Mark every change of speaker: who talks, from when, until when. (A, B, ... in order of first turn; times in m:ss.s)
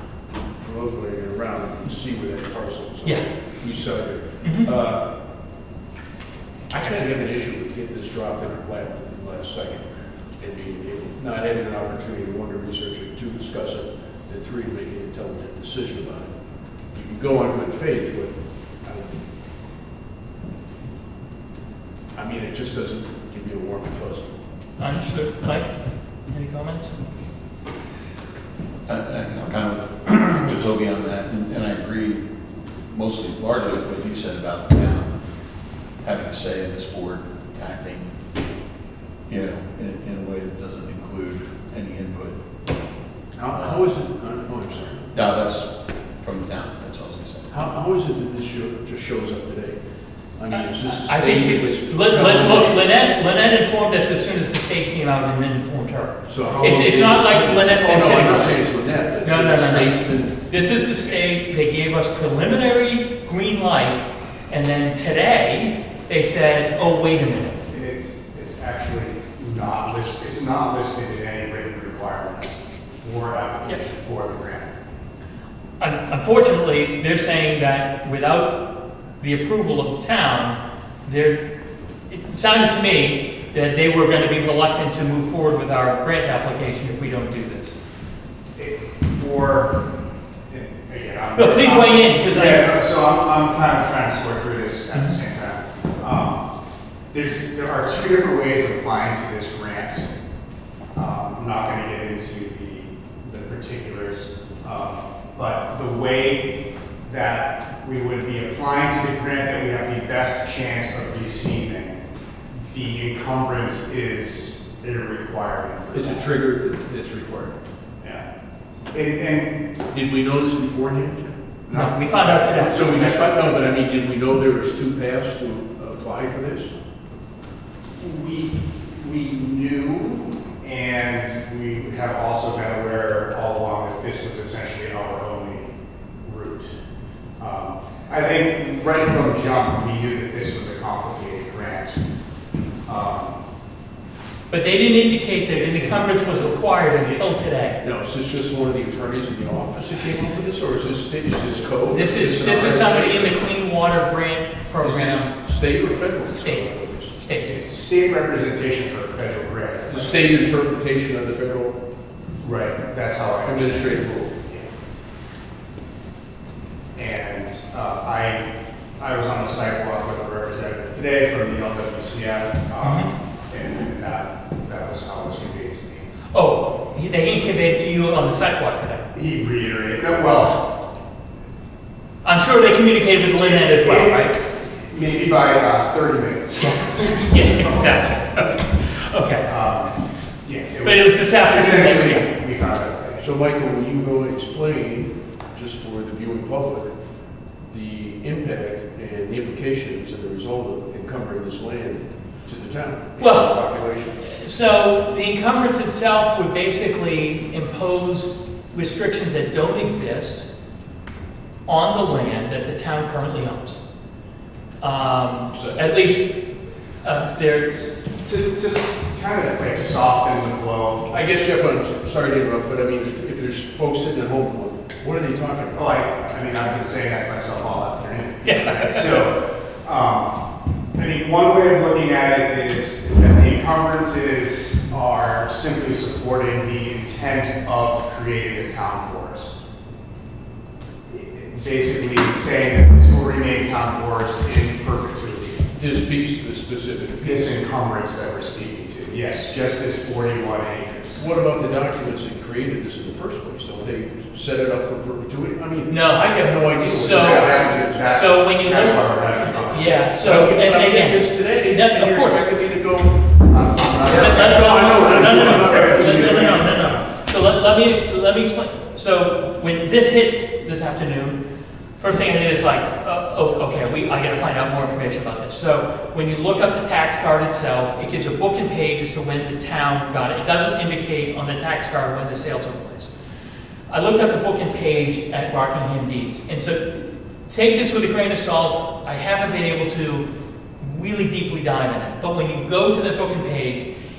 0:00.6-0:05.1 A
0:04.4-0:04.7 B
0:06.7-0:16.3 A
0:16.9-0:19.2 A
0:22.2-0:24.4 A
0:24.8-0:25.7 B
0:26.3-0:26.9 B
0:28.9-0:32.2 C
0:32.9-0:35.2 C
0:36.0-0:38.1 C
0:39.3-0:42.4 C
0:43.4-0:45.0 A
0:43.5-0:43.9 C
0:45.1-0:47.5 C
0:47.5-0:49.8 A
0:50.4-0:52.9 A
0:50.5-0:58.6 B
0:56.3-1:00.4 A
0:59.2-1:07.6 B
1:07.7-1:14.7 D
1:15.8-1:21.4 B
1:22.1-1:27.7 B
1:28.6-1:29.8 D
1:30.5-1:36.5 D
1:31.4-1:32.7 B
1:37.1-1:40.1 D
1:41.0-1:52.0 D
1:52.7-1:56.3 D
1:55.9-1:57.6 A
1:58.0-1:58.3 D
1:58.9-1:59.6 D
1:59.9-2:01.4 A
2:01.7-2:03.3 D
2:01.7-2:02.8 B
2:02.6-2:06.7 A
2:08.0-2:16.7 D
2:17.4-2:22.0 D
2:22.8-2:23.4 D
2:24.5-2:27.8 B
2:25.5-2:26.2 D
2:27.8-2:33.4 A
2:31.9-2:35.3 B
2:34.8-2:37.1 A
2:36.3-2:37.6 B
2:37.4-2:40.5 D
2:39.9-2:41.8 A
2:42.4-2:44.7 D
2:43.4-2:44.3 A
2:46.9-2:48.5 D
2:49.0-2:56.1 D
2:52.8-2:53.1 B
2:56.3-2:59.0 B
2:59.1-3:00.7 D
3:02.2-3:04.4 B
3:03.4-3:07.9 D
3:07.3-3:09.5 B
3:09.4-3:13.2 D
3:10.8-3:12.2 B
3:13.2-3:16.9 A
3:17.7-3:24.2 A
3:23.2-3:23.6 B
3:24.2-3:30.4 B
3:31.7-3:33.8 B
3:34.8-3:36.3 B
3:35.5-3:36.0 A
3:37.0-3:37.9 B
3:37.9-3:41.1 D
3:41.1-3:45.8 A
3:45.7-3:50.3 D
3:48.4-3:49.0 B
3:51.0-3:59.6 D
4:01.1-4:05.7 D
4:05.8-4:07.5 A
4:07.2-4:11.3 D
4:11.2-4:18.2 A
4:15.9-4:22.4 B
4:16.9-4:20.2 D
4:20.2-4:26.6 A
4:23.5-4:27.0 D
4:24.1-4:31.4 B
4:32.0-4:43.1 B
4:43.9-4:50.3 B
4:50.8-4:53.9 B